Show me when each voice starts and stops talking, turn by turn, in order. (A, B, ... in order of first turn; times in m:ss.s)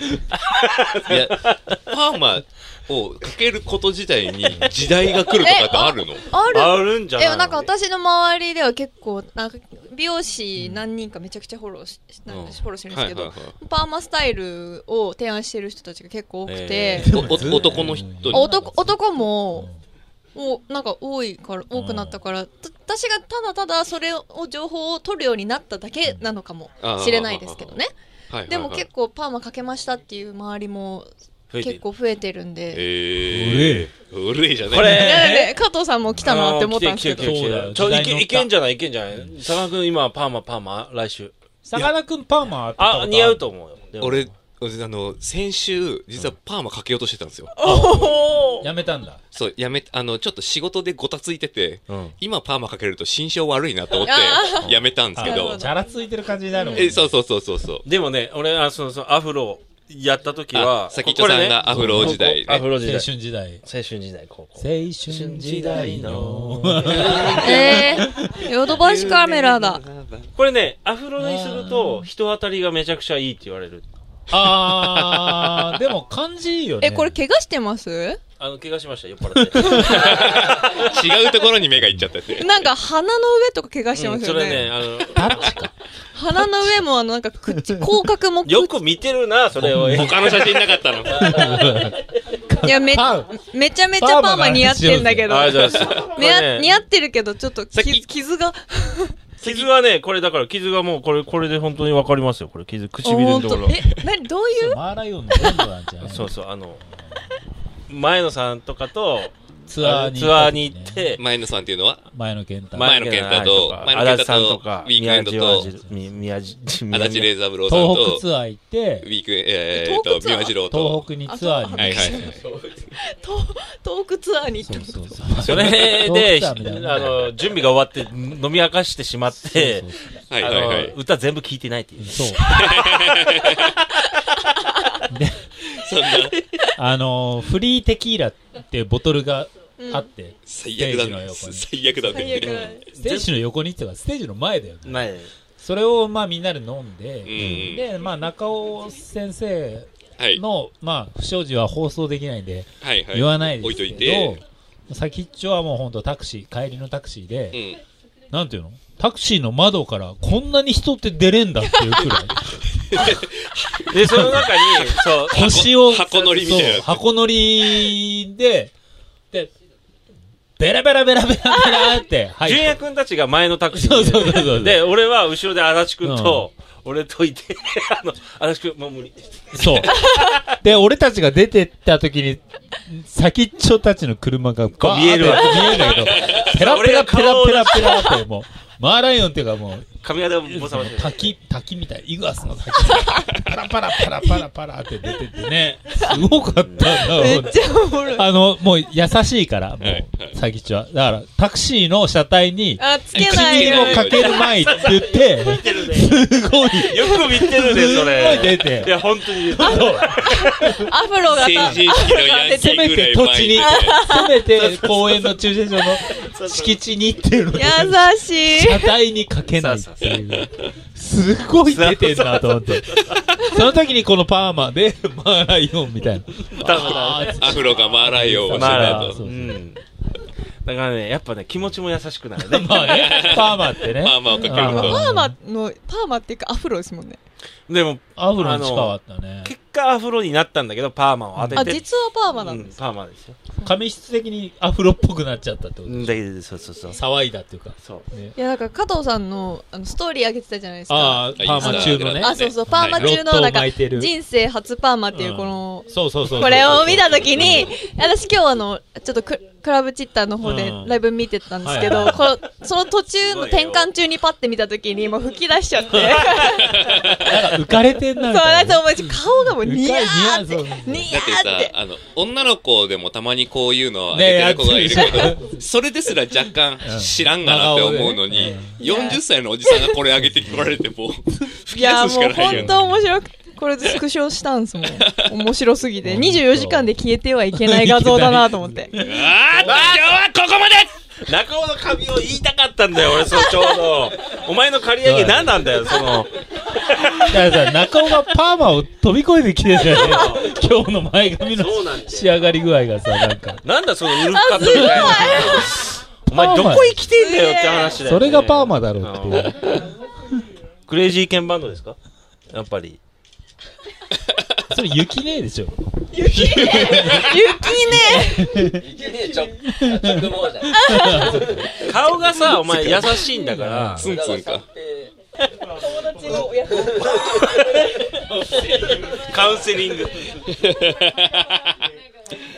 0:00.4-0:01.6 A
0:01.1-0:06.2 B
0:05.4-0:17.1 C
0:06.5-0:07.7 A
0:10.6-0:10.8 D
0:12.3-0:12.6 A
0:12.9-0:13.5 B
0:16.4-0:17.5 A
0:17.0-0:19.8 D
0:17.1-0:18.4 B
0:18.3-0:19.7 C
0:20.3-0:27.9 C
0:21.7-0:22.2 D
0:26.8-0:27.8 B
0:28.3-0:28.9 B
0:28.5-0:32.9 C
0:31.5-0:31.8 A
0:32.7-0:35.1 B
0:33.2-0:33.9 D
0:34.7-0:35.4 A
0:34.8-0:35.6 D
0:35.0-0:37.4 C
0:36.2-0:41.3 A
0:37.1-0:38.5 D
0:41.6-0:43.5 D
0:42.8-0:44.3 A
0:44.0-0:47.5 B
0:47.6-0:48.7 C
0:47.6-0:49.2 D
0:49.3-0:55.7 B
0:51.9-0:52.1 A
0:54.0-0:55.7 C
0:55.1-0:57.1 D
0:56.5-0:56.9 C
0:56.7-0:57.8 B
0:57.8-1:07.8 A
1:00.5-1:02.7 B
1:01.7-1:02.2 D
1:02.8-1:03.6 D
1:04.6-1:08.4 D
1:06.8-1:10.3 B
1:07.2-1:09.8 C
1:10.3-1:15.9 A
1:11.2-1:12.1 D
1:14.3-1:17.2 D
1:16.8-1:18.2 C
1:18.4-1:20.9 A
1:19.5-1:19.8 D
1:19.7-1:22.5 B
1:22.3-1:24.7 C
1:23.9-1:25.6 A
1:25.1-1:25.7 D
1:26.1-1:28.8 C
1:26.3-1:26.8 D
1:28.4-1:31.8 A
1:29.6-1:30.1 D
1:29.9-1:31.4 B
1:31.1-1:33.4 D
1:32.6-1:39.7 C
1:34.0-1:35.5 D
1:35.3-1:36.7 A
1:37.7-1:38.1 B
1:39.4-1:43.8 A
1:43.0-1:44.8 C
1:44.5-1:46.4 D
1:45.3-1:45.6 C
1:46.0-1:46.8 A
1:47.9-1:51.2 A
1:49.7-1:51.2 D
1:51.2-1:52.0 B
1:52.1-1:52.9 D
1:52.7-1:57.3 A
1:52.8-1:55.7 B
1:55.5-1:56.1 D
1:56.9-1:58.2 B
1:57.7-1:59.1 D
1:59.0-2:01.1 B
1:59.7-2:00.6 C
2:00.6-2:02.4 D
2:01.2-2:05.2 C
2:01.7-2:02.2 B
2:04.6-2:07.3 D
2:05.4-2:13.5 A
2:05.5-2:06.0 B
2:09.4-2:10.2 D
2:10.3-2:10.9 B
2:12.0-2:12.4 D
2:12.4-2:13.7 B
2:15.1-2:15.5 D
2:15.7-2:16.4 B
2:16.8-2:37.6 D
2:19.8-2:20.1 C
2:20.4-2:22.8 B
2:22.1-2:22.8 C
2:22.6-2:23.4 A
2:24.8-2:25.3 A
2:27.2-2:27.8 B
2:32.8-2:34.4 B
2:37.5-2:37.8 B
2:38.3-2:42.4 D
2:42.9-2:47.0 B
2:43.9-2:46.9 A
2:44.0-2:44.4 D
2:45.3-2:48.7 D
2:50.6-2:52.8 D
2:52.4-3:00.4 A
2:53.7-2:54.8 D
2:56.0-2:56.4 D
2:59.5-3:09.9 D
3:04.8-3:08.2 A
3:10.0-3:11.4 A
3:10.4-3:30.9 D
3:16.2-3:17.3 A
3:17.0-3:18.3 C
3:19.8-3:20.3 B
3:22.8-3:24.4 C
3:23.1-3:24.4 B
3:23.6-3:26.2 A
3:26.8-3:30.8 A
3:30.7-3:32.9 C
3:31.3-3:34.0 B
3:31.5-3:31.8 D
3:32.5-3:49.6 D
3:33.5-3:34.4 C
3:34.6-3:36.9 A
3:37.5-3:38.9 C
3:39.5-3:40.4 A
3:41.6-3:43.5 A
3:46.4-3:47.8 A
3:47.2-3:49.2 B
3:48.5-3:49.8 A
3:50.6-3:53.2 A
3:52.4-3:55.4 D
3:52.8-3:55.0 B
3:54.2-3:57.2 C
3:54.4-3:54.9 A
3:57.7-4:03.4 A
3:58.2-3:59.5 D
4:01.4-4:01.8 D
4:01.6-4:02.8 C
4:03.6-4:06.2 D
4:05.8-4:07.0 A
4:06.9-4:08.3 D
4:07.8-4:08.0 A
4:08.4-4:26.8 C
4:10.9-4:14.1 D
4:11.4-4:13.1 B
4:15.1-4:17.7 D
4:17.3-4:17.7 B
4:20.4-4:21.0 D
4:21.6-4:22.3 D
4:23.1-4:23.9 A
4:26.0-4:26.3 D
4:26.9-4:27.2 B
4:27.2-4:31.1 D
4:28.2-4:31.7 C
4:31.1-4:42.7 B
4:34.1-4:35.6 D
4:36.8-4:38.8 D
4:38.8-4:40.0 C
4:40.2-4:40.6 D
4:41.7-4:48.9 C
4:42.5-4:43.1 D
4:45.0-4:45.3 B
4:46.0-4:47.0 D
4:47.5-4:49.3 D
4:49.0-4:57.8 A
4:49.2-4:50.1 B
4:55.0-4:55.5 D
4:57.2-5:03.6 D
4:59.8-5:00.5 A
5:01.5-5:02.4 A
5:03.6-5:09.9 A
5:04.3-5:05.7 C
5:04.6-5:05.4 D
5:06.3-5:07.0 D
5:07.1-5:08.0 C
5:08.0-5:09.6 D
5:10.9-5:12.0 A
5:12.5-5:13.0 A
5:14.7-5:17.3 D
5:16.1-5:18.6 C
5:17.9-5:18.9 D
5:19.5-5:21.6 D
5:20.6-5:22.6 C
5:21.8-5:24.1 A
5:23.4-5:24.1 D
5:24.0-5:24.7 B
5:25.6-5:27.5 C
5:27.1-5:30.4 A
5:30.5-5:31.7 B